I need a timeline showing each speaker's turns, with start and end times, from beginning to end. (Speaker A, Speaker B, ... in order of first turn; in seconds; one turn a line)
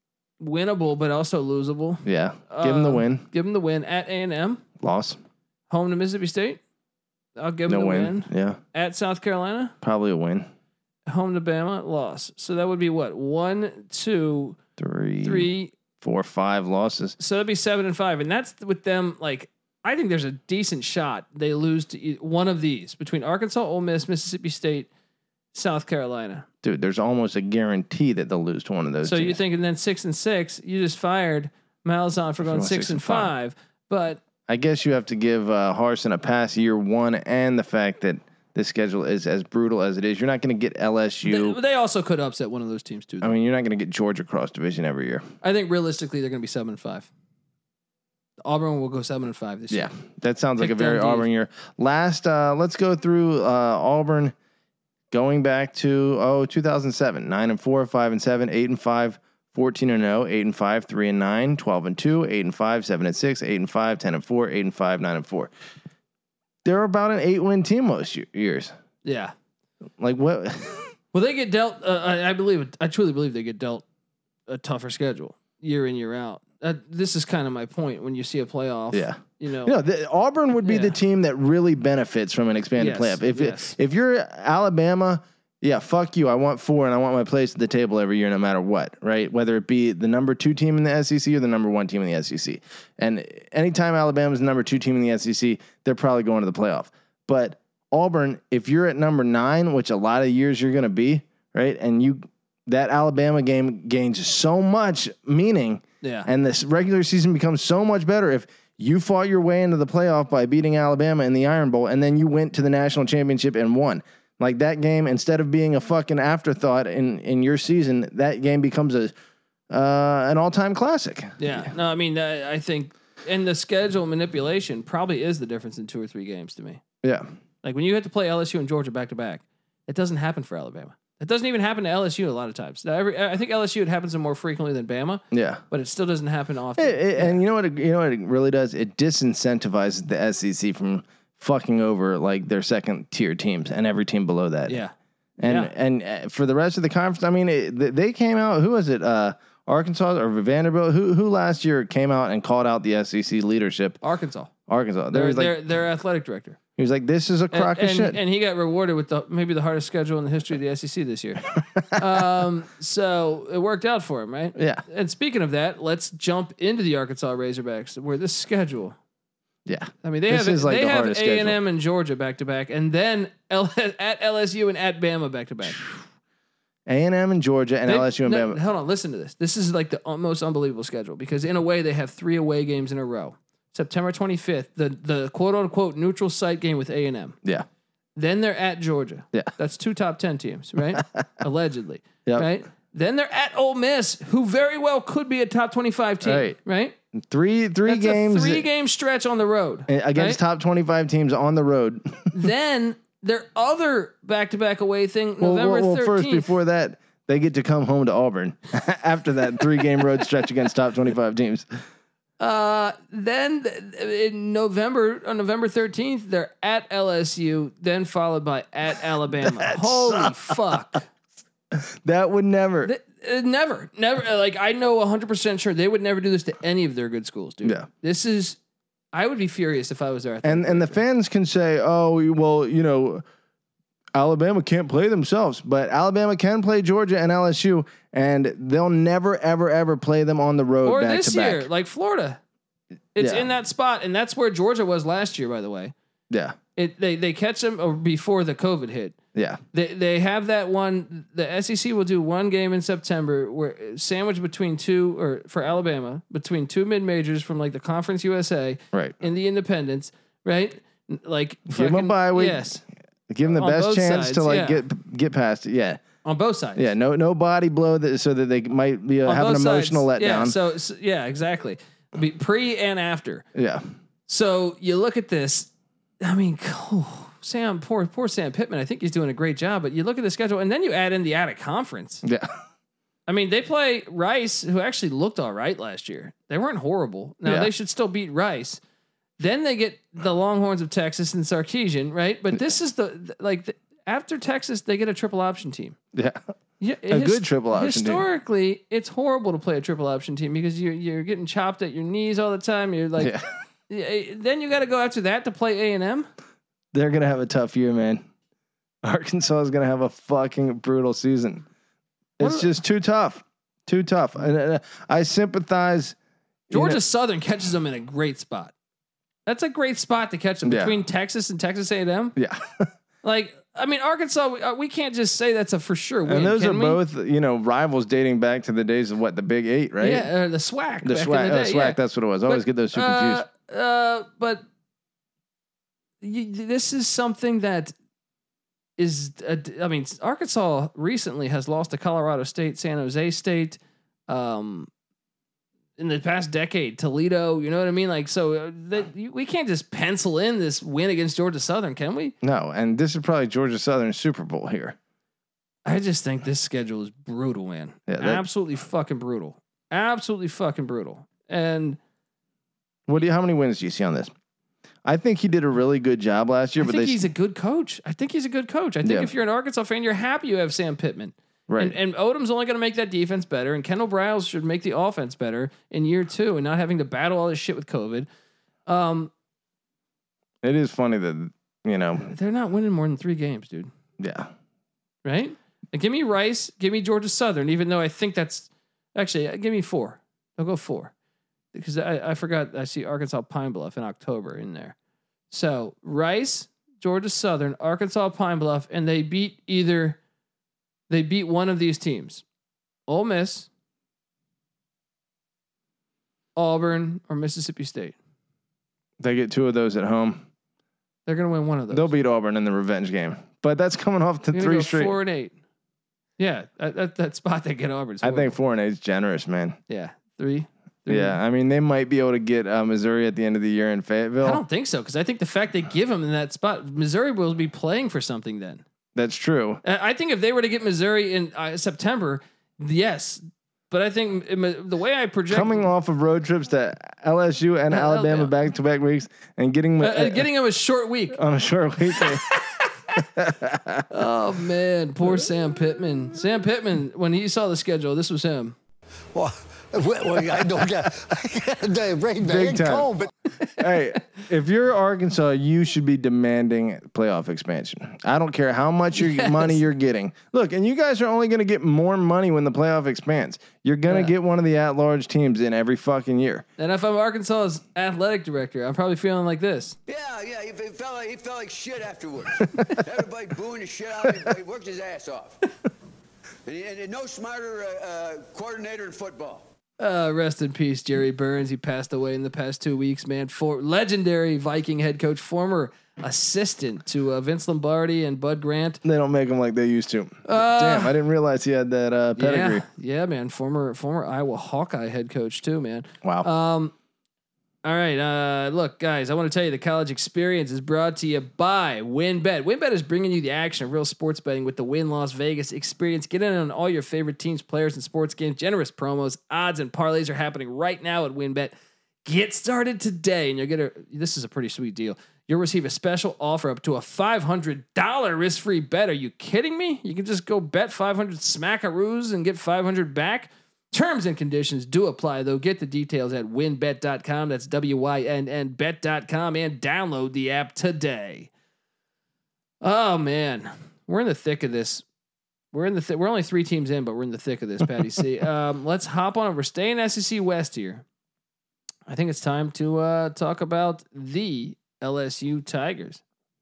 Speaker A: 0.4-4.6
Speaker B: 2.0-3.2
Speaker B: 4.8-5.2
Speaker A: 5.7-6.6
Speaker A: 7.4-9.7
Speaker B: 7.7-8.6
Speaker B: 9.8-10.5
Speaker A: 11.1-14.6
Speaker B: 14.8-15.5
Speaker A: 15.2-15.7
Speaker B: 16.0-17.1
Speaker A: 17.2-24.9
Speaker A: 25.5-26.5
Speaker B: 26.6-29.4
Speaker A: 29.0-34.2
Speaker B: 32.4-33.3
Speaker B: 34.5-41.6
Speaker A: 41.2-43.3
Speaker B: 43.2-45.3
Speaker A: 45.4-47.1
Speaker A: 48.4-49.9
Speaker B: 49.7-54.3
Speaker A: 50.6-51.3
Speaker B: 55.1-65.5
Speaker B: 66.6-68.7
Speaker A: 69.0-69.3
Speaker B: 70.0-70.9
Speaker A: 71.1-73.8
Speaker A: 74.5-79.8
Speaker B: 78.9-119.1
Speaker A: 80.6-81.0
Speaker A: 82.8-83.8
Speaker A: 106.0-106.3
Speaker B: 119.7-121.7
Speaker A: 121.4-126.8
Speaker A: 127.6-137.4
Speaker B: 135.3-135.6
Speaker B: 136.8-144.8
Speaker A: 144.7-145.7
Speaker B: 145.4-154.0
Speaker A: 154.0-154.5
Speaker B: 154.7-155.6
Speaker A: 155.1-156.6
Speaker B: 156.8-158.2
Speaker A: 157.5-169.0
Speaker B: 164.6-164.8
Speaker B: 169.7-171.6
Speaker A: 170.0-175.8
Speaker B: 176.9-178.6
Speaker A: 177.8-187.4
Speaker A: 188.2-196.9
Speaker B: 196.2-196.6
Speaker B: 197.1-198.7
Speaker A: 197.8-200.4
Speaker B: 199.9-202.3
Speaker A: 202.3-206.5
Speaker B: 205.4-211.7
Speaker A: 212.4-221.1
Speaker B: 219.4-220.5
Speaker B: 221.7-222.9
Speaker A: 222.8-228.6
Speaker A: 229.1-231.0
Speaker B: 230.4-233.2
Speaker B: 234.1-241.7
Speaker A: 240.8-242.4
Speaker A: 243.1-245.9
Speaker B: 243.2-243.5
Speaker B: 246.3-246.6
Speaker A: 246.8-249.2
Speaker B: 249.3-249.6
Speaker A: 249.7-262.8
Speaker B: 261.7-262.6
Speaker B: 263.3-266.0
Speaker A: 263.4-264.8
Speaker A: 266.2-266.9
Speaker B: 266.8-270.6
Speaker A: 269.2-273.4
Speaker B: 273.5-273.8
Speaker A: 274.3-275.7
Speaker A: 276.2-282.2
Speaker B: 282.2-282.5
Speaker A: 283.3-288.8
Speaker B: 287.4-287.7
Speaker A: 289.4-296.0
Speaker B: 296.1-296.4
Speaker A: 296.8-303.3
Speaker B: 297.1-298.2
Speaker B: 303.2-303.5
Speaker A: 303.9-306.3
Speaker B: 306.9-308.2
Speaker B: 309.0-311.6
Speaker B: 312.4-316.1
Speaker A: 312.4-312.7
Speaker B: 316.7-317.0
Speaker A: 316.7-318.7
Speaker A: 319.4-322.4
Speaker B: 320.6-320.9
Speaker B: 322.4-322.9
Speaker A: 323.2-327.0
Speaker B: 326.2-330.3
Speaker A: 330.0-334.6
Speaker B: 331.0-333.4
Speaker A: 336.2-337.9
Speaker A: 339.0-344.9
Speaker A: 346.0-352.3
Speaker B: 352.4-355.0
Speaker A: 355.8-362.0
Speaker B: 358.1-358.4
Speaker B: 363.1-364.3
Speaker B: 365.0-367.2
Speaker A: 366.8-378.3
Speaker B: 369.0-369.3
Speaker B: 371.7-371.9
Speaker A: 378.9-379.3
Speaker B: 380.6-382.3
Speaker A: 382.2-383.9
Speaker B: 384.2-384.5
Speaker A: 385.2-391.1
Speaker A: 391.7-394.9
Speaker A: 395.5-400.2
Speaker A: 401.1-402.4
Speaker A: 403.1-403.7
Speaker A: 406.6-408.1
Speaker B: 409.2-410.4
Speaker A: 411.3-412.1
Speaker B: 411.9-415.1
Speaker A: 414.5-415.5
Speaker A: 416.4-418.5
Speaker B: 418.2-419.8
Speaker A: 419.9-421.4
Speaker B: 421.1-424.6
Speaker A: 424.4-428.8
Speaker B: 429.1-429.8
Speaker A: 429.8-435.9
Speaker B: 435.5-440.5
Speaker A: 437.9-438.5
Speaker A: 440.0-441.4
Speaker B: 441.3-442.4
Speaker B: 443.1-444.1
Speaker A: 444.1-448.8
Speaker C: 449.3-453.3
Speaker B: 452.4-453.1
Speaker B: 453.8-466.6
Speaker A: 459.2-459.7
Speaker A: 466.8-470.0
Speaker D: 470.1-475.6
Speaker D: 476.6-479.7
Speaker A: 480.0-489.0
Speaker B: 489.0-492.8
Speaker A: 490.4-491.1
Speaker A: 492.4-496.9
Speaker B: 496.2-496.5
Speaker A: 497.8-511.7
Speaker A: 512.2-531.5
Speaker A: 532.8-535.0
Speaker A: 535.7-541.0
Speaker A: 542.1-546.2